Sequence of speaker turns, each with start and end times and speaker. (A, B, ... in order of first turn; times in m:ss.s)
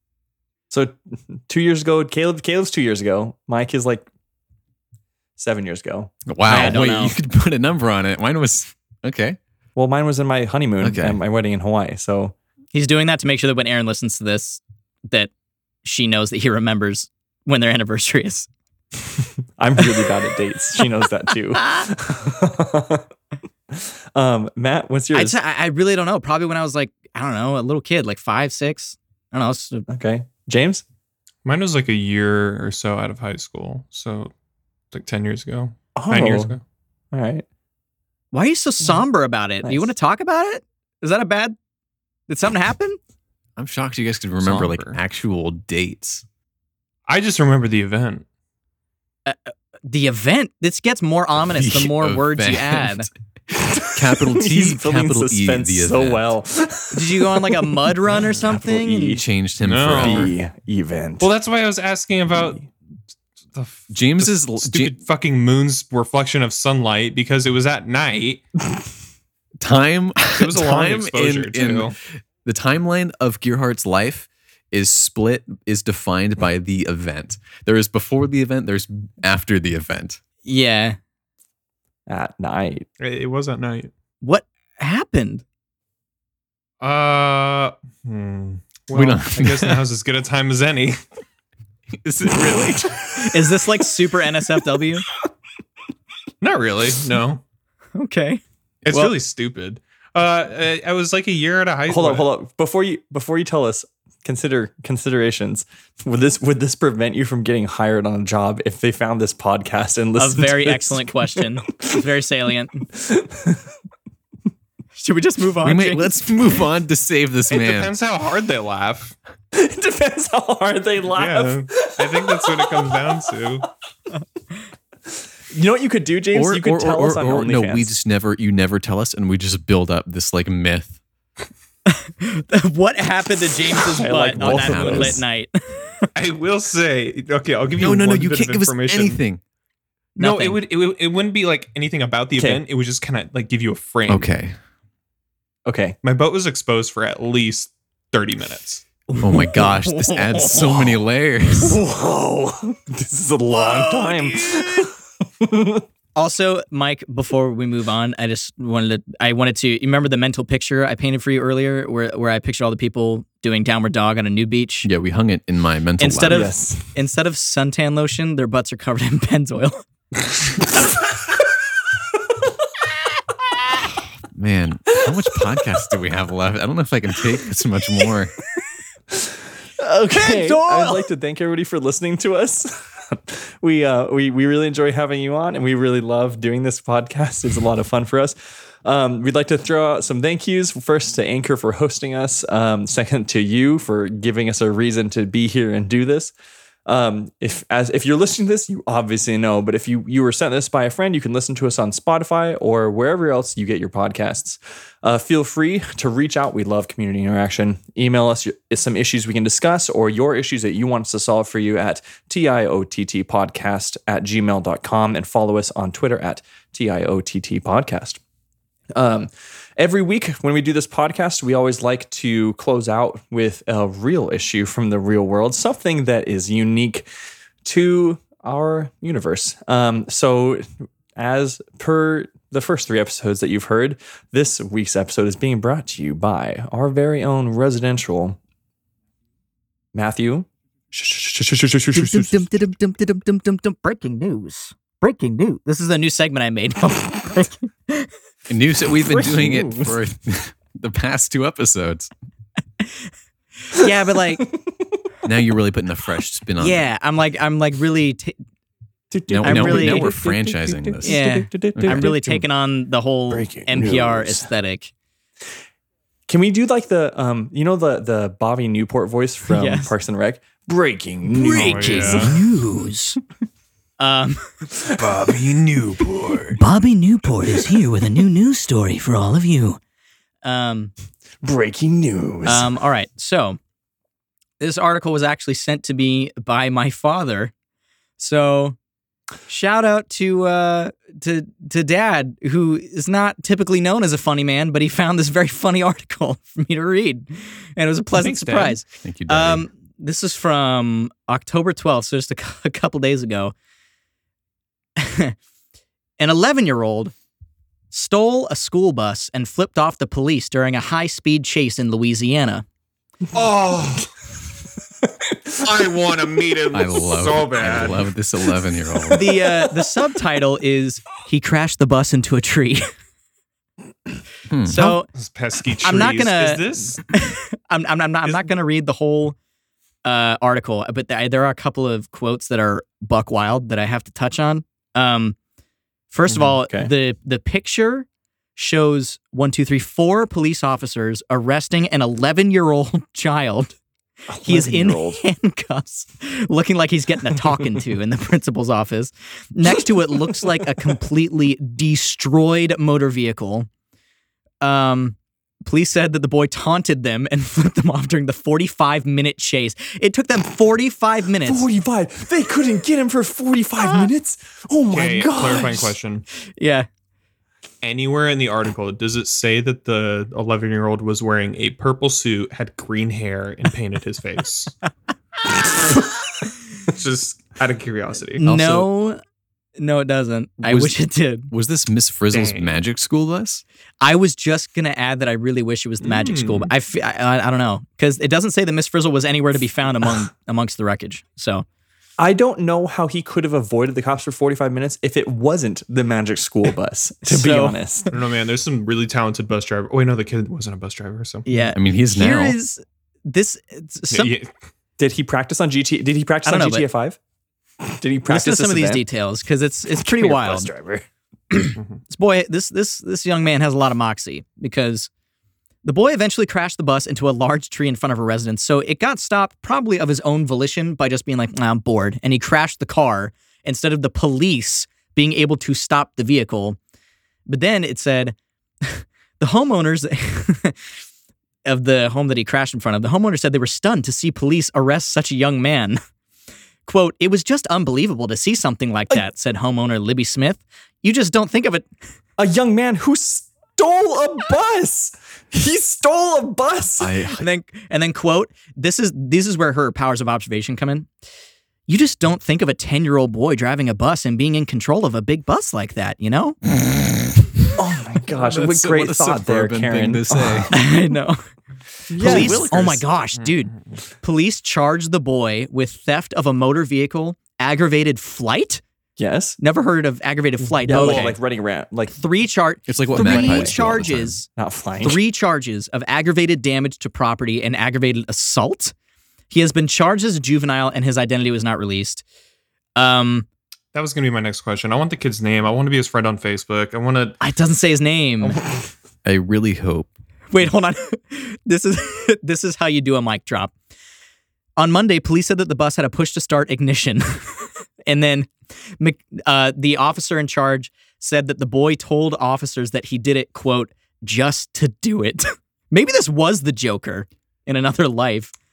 0:00.7-0:04.1 A
0:05.4-0:06.8 A
0:06.2-0:09.4 B
0:06.4-0:07.1 C
0:09.8-0:12.3 A
0:10.8-0:11.2 B
0:12.7-0:15.3 C
0:15.8-0:18.5 C
0:19.1-0:23.1 A
0:23.7-0:25.4 A
0:25.1-0:29.9 C
0:29.9-0:30.8 A
0:31.4-0:34.3 D
0:34.9-0:36.6 D
0:36.0-0:36.5 A
0:37.1-0:37.4 A
0:38.3-0:41.6 C
0:39.6-0:39.9 A
0:42.3-0:43.0 C
0:43.6-0:46.2 B
0:44.4-0:45.0 D
0:47.1-0:48.2 D
0:49.2-0:53.1 C
0:51.6-0:53.0 B
0:53.7-0:56.3 B
0:53.7-0:59.2 A
0:56.9-0:59.2 C
0:59.2-1:00.3 B
0:59.6-1:00.3 D
1:00.0-1:01.3 A
1:01.2-1:02.7 D
1:03.5-1:08.4 D
1:03.9-1:04.9 B
1:09.6-1:20.2 B
1:10.3-1:11.9 D
1:20.4-1:21.0 C
1:22.1-1:22.8 A
1:23.0-1:23.9 D
1:24.2-1:25.4 C
1:26.8-1:31.0 D
1:28.9-1:29.8 B
1:32.0-1:33.2 B
1:33.2-1:35.0 C
1:36.4-1:37.4 D
1:37.9-1:39.1 C
1:38.8-1:42.3 D
1:41.9-1:52.0 A
1:50.2-1:52.9 C
1:52.9-1:53.7 A
1:55.0-1:56.2 C
1:55.6-1:57.9 B
1:57.5-1:59.1 D
1:59.5-2:03.0 A
2:01.1-2:03.7 D
2:05.5-2:07.9 A
2:06.3-2:11.0 B
2:11.9-2:16.1 C
2:13.8-2:15.2 A
2:14.3-2:15.2 B
2:16.1-2:19.2 D
2:17.8-2:19.4 B
2:20.2-2:20.6 C
2:20.2-2:24.3 D
2:22.4-2:22.6 A
2:24.1-2:24.6 B
2:25.6-2:26.0 A
2:26.0-2:28.8 D
2:29.1-2:30.8 C
2:29.2-2:31.8 B
2:31.6-2:35.8 A
2:33.5-2:34.9 C
2:36.1-2:44.9 C
2:44.8-2:46.5 B
2:46.0-2:49.8 C
2:46.3-2:46.8 A
2:54.3-2:58.3 B
2:59.1-3:16.3 A
3:00.1-3:01.0 C
3:16.8-3:38.2 A
3:38.9-3:47.1 A
3:47.6-3:58.4 A
3:59.9-4:02.5 A
4:01.9-4:08.1 C
4:08.5-4:12.1 B
4:09.0-4:09.9 A
4:13.7-4:14.5 C
4:15.2-4:16.8 B
4:16.6-4:18.4 C
4:19.1-4:22.2 A
4:19.3-4:21.2 B
4:19.4-4:20.1 C
4:21.0-4:24.9 C
4:21.7-4:22.4 B
4:23.3-4:24.5 A
4:26.3-4:32.5 A
4:29.5-4:29.9 C
4:31.3-4:33.2 C
4:31.5-4:32.4 D
4:34.0-4:34.5 C
4:34.7-4:35.4 A
4:35.0-4:36.6 D
4:36.6-4:39.8 C
4:40.4-4:40.9 C
4:41.4-4:42.7 A
4:42.4-4:43.6 C
4:44.6-4:47.5 C
4:48.2-4:48.8 C
4:49.5-5:03.5 C
4:58.1-4:58.8 D
4:59.0-4:59.7 B
5:05.0-5:05.3 C
5:06.2-5:07.1 C
5:07.9-5:12.6 C
5:13.3-5:14.1 D
5:15.6-5:18.1 D
5:16.7-5:19.3 B
5:19.1-5:22.9 C
5:19.2-5:19.9 A
5:24.5-5:25.0 B
5:24.6-5:25.1 C
5:25.1-5:27.0 D
5:25.8-5:29.4 C
5:30.0-5:35.4 C
5:36.1-5:43.8 C
5:36.3-5:36.5 D
5:36.6-5:36.9 A
5:44.3-5:45.2 A
5:44.4-5:53.7 C
5:49.9-5:50.7 A
5:54.6-6:01.7 C
6:01.4-6:05.9 A
6:04.9-6:06.2 D
6:06.6-6:06.9 C
6:07.8-6:14.8 D
6:16.8-6:18.4 D
6:18.4-6:19.2 C
6:18.4-6:18.9 B
6:19.8-6:21.5 C
6:20.7-6:23.6 B
6:22.3-6:22.8 D
6:24.0-6:31.6 C
6:26.0-6:26.7 D
6:32.2-6:38.1 A
6:37.2-6:37.8 C
6:38.1-6:41.4 D
6:41.5-6:44.3 C
6:41.7-6:42.6 B
6:44.1-6:44.5 D
6:45.0-6:47.2 A
6:46.4-6:46.8 C
6:47.8-6:49.0 A
6:48.3-6:50.7 C
6:49.9-6:51.0 A
6:51.5-6:55.1 C
6:55.8-7:06.8 C
7:07.5-7:10.8 C
7:11.6-7:16.0 C
7:16.8-7:21.9 C
7:22.4-7:27.1 A
7:27.0-7:27.4 B
7:27.4-7:31.1 C
7:31.9-7:36.6 C
7:37.8-7:40.8 A
7:38.3-7:40.7 B
7:40.7-7:41.4 C
7:42.1-7:43.0 A
7:42.1-7:48.8 C
7:42.2-7:43.0 B
7:49.2-7:49.6 A
7:49.6-7:51.4 C
7:50.8-7:51.3 D
7:50.8-7:52.1 A
7:52.1-7:54.5 C
7:52.9-7:54.4 B
7:53.1-7:53.8 A
7:54.6-7:55.2 A
7:55.0-7:58.9 C
7:59.5-8:02.2 C
8:03.0-8:03.4 C
8:03.9-8:07.4 D
8:07.4-8:08.6 C
8:08.4-8:08.8 D
8:09.2-8:10.7 B
8:10.5-8:13.7 C
8:14.8-8:28.5 C